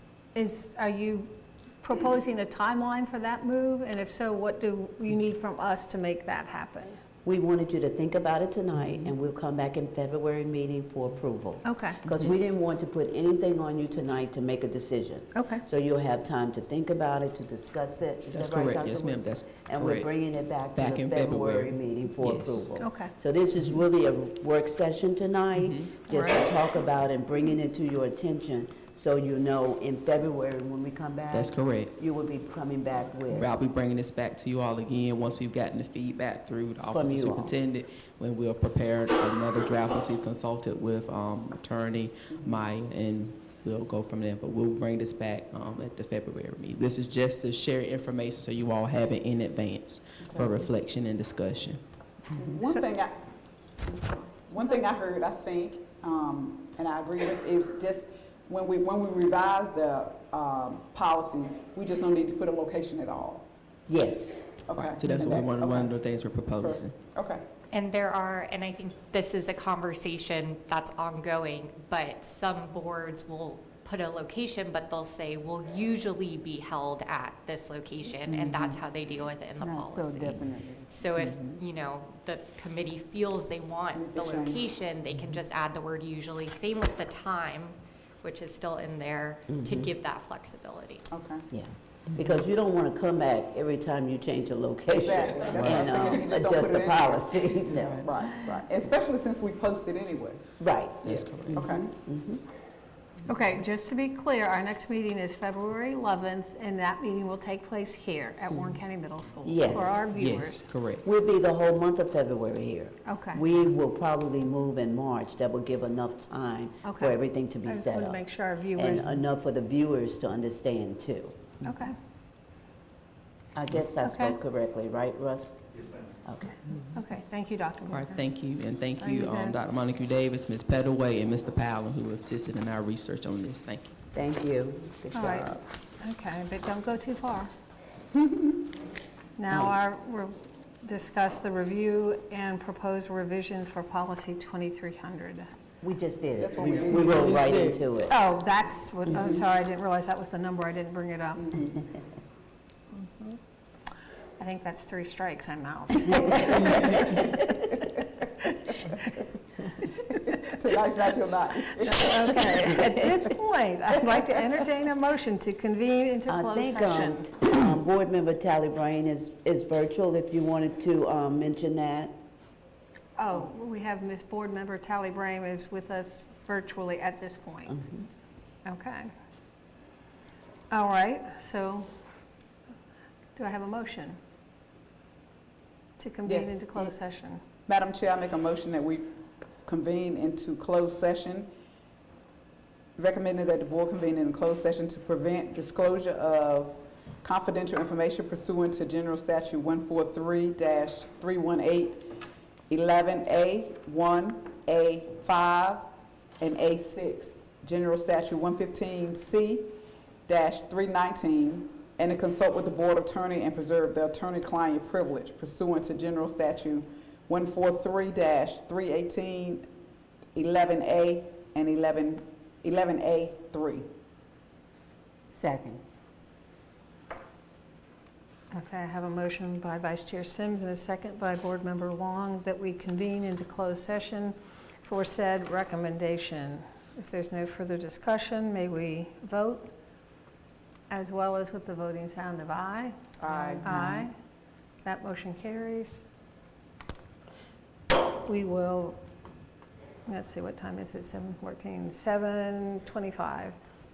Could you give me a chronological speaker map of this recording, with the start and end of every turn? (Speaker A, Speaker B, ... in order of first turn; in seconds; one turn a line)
Speaker A: 0.3-7.0
Speaker B: 7.2-33.5
Speaker A: 11.6-12.0
Speaker A: 15.3-15.6
Speaker C: 18.3-20.1
Speaker C: 20.7-22.7
Speaker A: 22.8-23.1
Speaker C: 25.6-25.9
Speaker A: 26.1-26.4
Speaker C: 31.3-31.9
Speaker C: 33.3-51.8
Speaker B: 36.9-37.5
Speaker D: 52.3-53.3
Speaker D: 53.8-63.5
Speaker B: 63.9-64.6
Speaker D: 64.7-66.0
Speaker C: 64.7-67.0
Speaker B: 65.2-65.5
Speaker D: 66.5-67.4
Speaker E: 67.7-91.0
Speaker B: 79.6-81.6
Speaker D: 83.9-84.7
Speaker B: 89.5-89.9
Speaker D: 91.1-91.5
Speaker B: 91.5-98.1
Speaker D: 94.9-100.4
Speaker C: 95.0-96.2
Speaker B: 100.6-102.4
Speaker C: 101.0-101.7
Speaker D: 101.5-101.9
Speaker A: 103.2-110.7
Speaker B: 109.4-110.1
Speaker C: 110.1-111.1
Speaker B: 111.0-118.2
Speaker A: 113.0-113.4
Speaker A: 116.8-119.2
Speaker B: 118.8-121.5
Speaker A: 121.6-121.9
Speaker B: 123.5-125.7
Speaker A: 124.0-124.4
Speaker B: 126.2-126.6
Speaker A: 126.8-128.2
Speaker C: 127.9-134.0
Speaker A: 129.0-129.6
Speaker B: 134.1-135.5
Speaker A: 135.1-137.5
Speaker A: 139.4-145.5
Speaker B: 145.8-148.1
Speaker D: 146.4-147.7
Speaker C: 146.6-147.8
Speaker A: 148.1-151.7
Speaker D: 151.4-151.7
Speaker A: 153.0-153.3
Speaker A: 154.4-157.4
Speaker B: 156.3-157.6
Speaker D: 160.4-162.7
Speaker A: 161.8-167.3
Speaker B: 166.3-172.1
Speaker A: 173.2-177.8
Speaker B: 177.7-178.0
Speaker A: 178.6-179.1
Speaker A: 180.7-181.9
Speaker A: 183.3-184.2
Speaker A: 186.0-187.4
Speaker D: 186.2-186.9
Speaker D: 187.7-189.1
Speaker D: 189.7-191.5
Speaker D: 193.0-205.9
Speaker D: 206.4-219.7
Speaker D: 220.3-223.8
Speaker B: 225.3-225.8
Speaker A: 228.5-239.7
Speaker A: 240.9-244.1
Speaker D: 243.2-243.7
Speaker B: 243.6-244.1
Speaker A: 244.8-246.1
Speaker A: 248.2-249.0
Speaker A: 250.1-253.6